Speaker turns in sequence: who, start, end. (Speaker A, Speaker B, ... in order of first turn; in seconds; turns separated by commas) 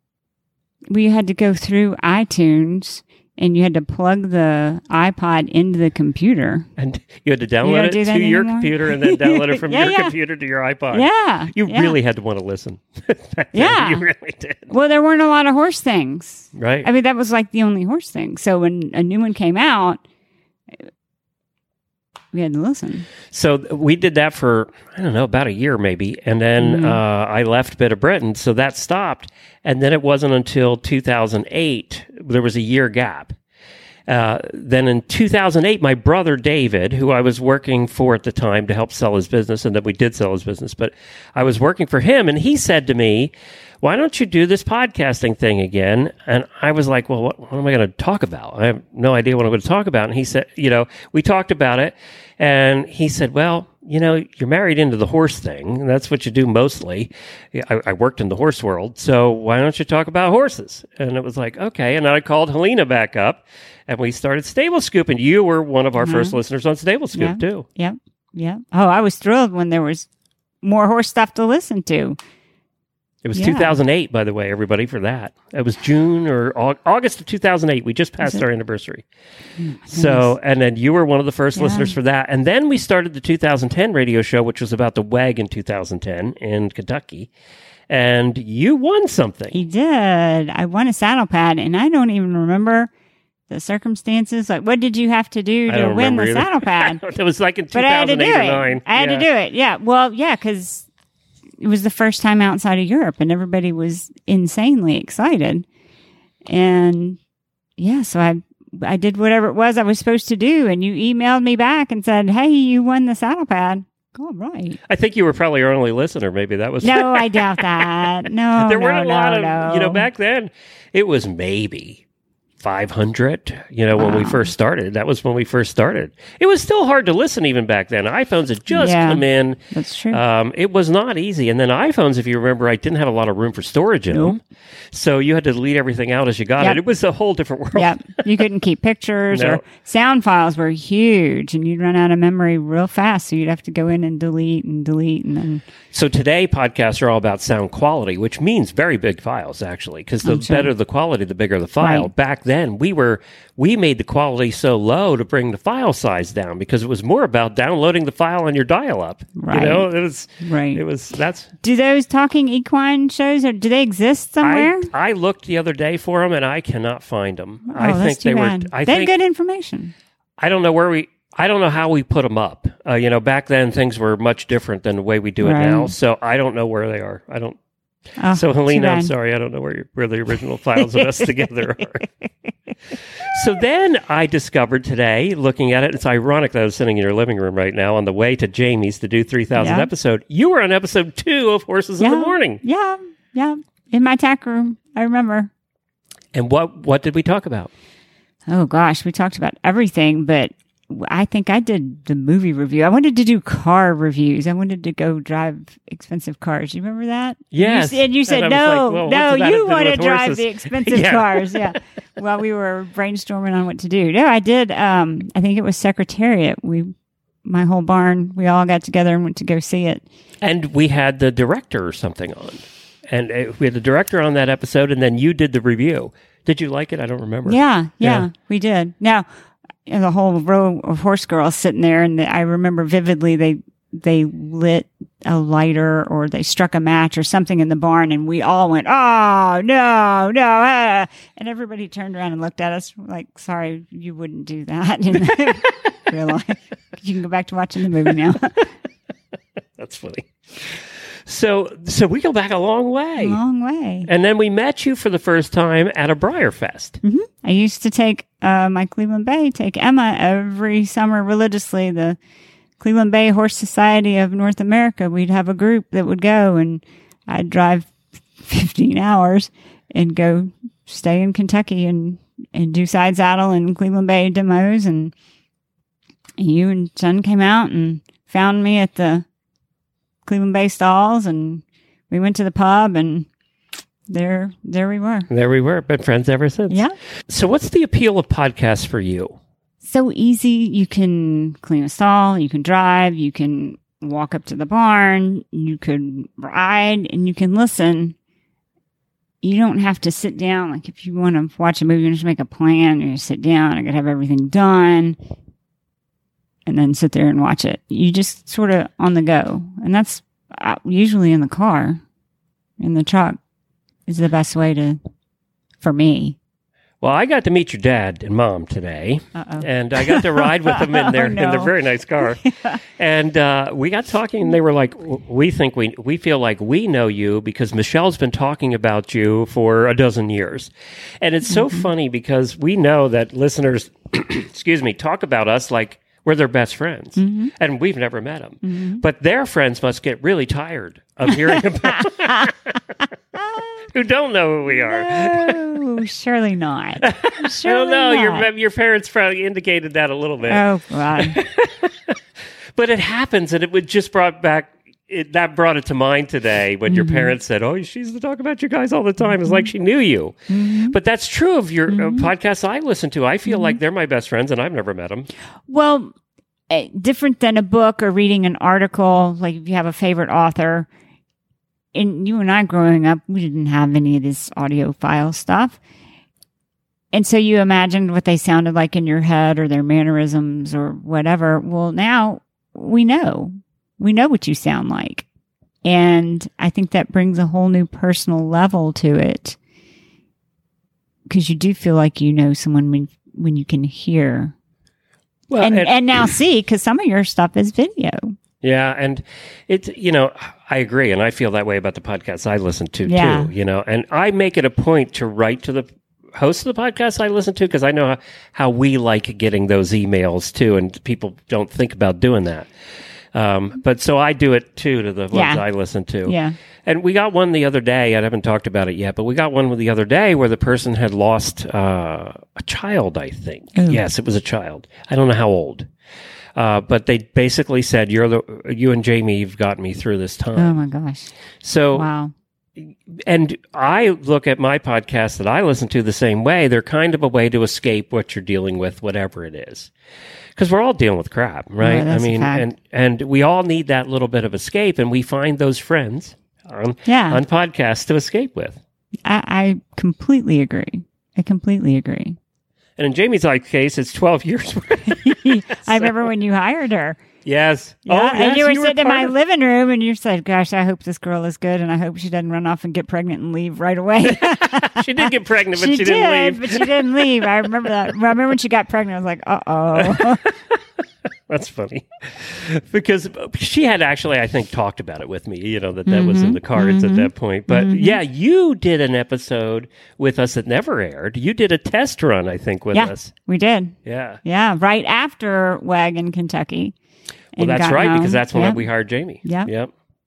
Speaker A: 0.9-6.7, Speaker B: 6.8-14.7, Speaker A: 7.6-10.2, Speaker A: 10.9-12.0, Speaker A: 13.5-14.1, Speaker A: 14.7-20.0, Speaker B: 16.6-16.9, Speaker A: 22.3-23.1, Speaker B: 23.3-33.4, Speaker A: 26.6-27.0, Speaker B: 34.1-67.7, Speaker A: 66.0-66.4, Speaker A: 67.1-70.1, Speaker A: 70.6-72.2, Speaker B: 73.2-79.0, Speaker A: 73.3-73.8, Speaker A: 78.2-78.5, Speaker A: 79.6-80.3, Speaker B: 79.9-87.3, Speaker A: 81.5-82.0, Speaker B: 87.9-89.6, Speaker A: 89.5-92.9, Speaker A: 93.5-97.0, Speaker B: 95.7-99.3, Speaker A: 97.7-100.9, Speaker A: 101.6-105.7, Speaker A: 106.5-107.2, Speaker A: 107.8-114.8, Speaker B: 114.9-118.0, Speaker A: 116.8-120.1, Speaker B: 118.6-122.0, Speaker B: 122.6-134.4, Speaker A: 124.0-124.5, Speaker A: 128.7-130.2, Speaker A: 134.1-134.4, Speaker B: 134.9-138.2, Speaker A: 137.7-145.6, Speaker B: 139.3-139.7, Speaker B: 145.9-161.5, Speaker A: 150.2-150.7, Speaker A: 151.8-152.1, Speaker A: 159.3-160.8, Speaker A: 161.6-164.9, Speaker B: 164.4-169.1, Speaker A: 167.7-169.9, Speaker B: 170.4-177.6, Speaker A: 175.4-175.9, Speaker A: 178.2-179.1, Speaker B: 178.3-182.0, Speaker A: 180.8-182.3, Speaker B: 183.3-192.6, Speaker A: 189.5-189.9, Speaker A: 192.0-195.5, Speaker B: 196.3-197.7, Speaker A: 198.5-216.9, Speaker B: 207.5-211.8, Speaker A: 217.4-220.1, Speaker B: 220.4-228.3, Speaker A: 227.5-229.3, Speaker A: 229.9-248.5, Speaker B: 249.8-253.4, Speaker A: 253.2-254.1, Speaker B: 254.1-257.0, Speaker A: 257.0-262.2, Speaker A: 262.8-275.1, Speaker A: 276.4-279.2, Speaker A: 280.3-283.3, Speaker A: 284.1-285.3, Speaker B: 285.3-289.4, Speaker A: 289.8-298.1, Speaker A: 299.4-305.2, Speaker A: 306.7-312.0, Speaker A: 312.8-313.4, Speaker A: 314.1-315.0, Speaker A: 315.8-316.4, Speaker B: 317.0-322.4, Speaker A: 319.4-322.8, Speaker B: 323.0-342.5, Speaker A: 331.5-331.9, Speaker A: 337.2-337.5, Speaker A: 338.6-339.0, Speaker A: 341.3-342.5, Speaker B: 343.9-345.6, Speaker A: 344.7-348.5, Speaker B: 347.0-350.6, Speaker A: 350.4-351.4, Speaker B: 351.2-351.8, Speaker B: 352.8-360.4, Speaker A: 356.9-357.4, Speaker A: 359.2-359.7, Speaker A: 360.5-361.0, Speaker B: 360.9-365.3, Speaker A: 361.9-362.3, Speaker A: 363.5-363.8, Speaker A: 365.7-366.1, Speaker A: 366.7-370.9, Speaker A: 371.9-375.8, Speaker A: 377.1-385.3, Speaker A: 385.9-389.6, Speaker A: 391.3-394.5, Speaker B: 395.5-396.3, Speaker A: 395.6-398.4, Speaker B: 398.6-412.7, Speaker A: 403.1-403.5, Speaker B: 413.3-425.9, Speaker A: 415.3-415.7, Speaker A: 416.2-416.5, Speaker A: 423.8-424.0, Speaker B: 426.6-430.8, Speaker A: 430.6-431.3, Speaker B: 431.6-432.1, Speaker A: 431.9-432.3, Speaker B: 432.9-439.9, Speaker B: 440.6-448.8, Speaker A: 441.8-442.7, Speaker A: 447.1-447.4, Speaker A: 449.3-452.4, Speaker B: 453.0-456.2, Speaker A: 455.3-457.2, Speaker B: 457.4-459.3, Speaker A: 458.1-470.4, Speaker B: 464.3-467.5, Speaker B: 470.0-470.5, Speaker B: 471.5-483.3, Speaker A: 476.1-478.2, Speaker A: 482.9-486.9, Speaker B: 484.1-484.4, Speaker A: 487.6-489.7, Speaker B: 487.6-489.9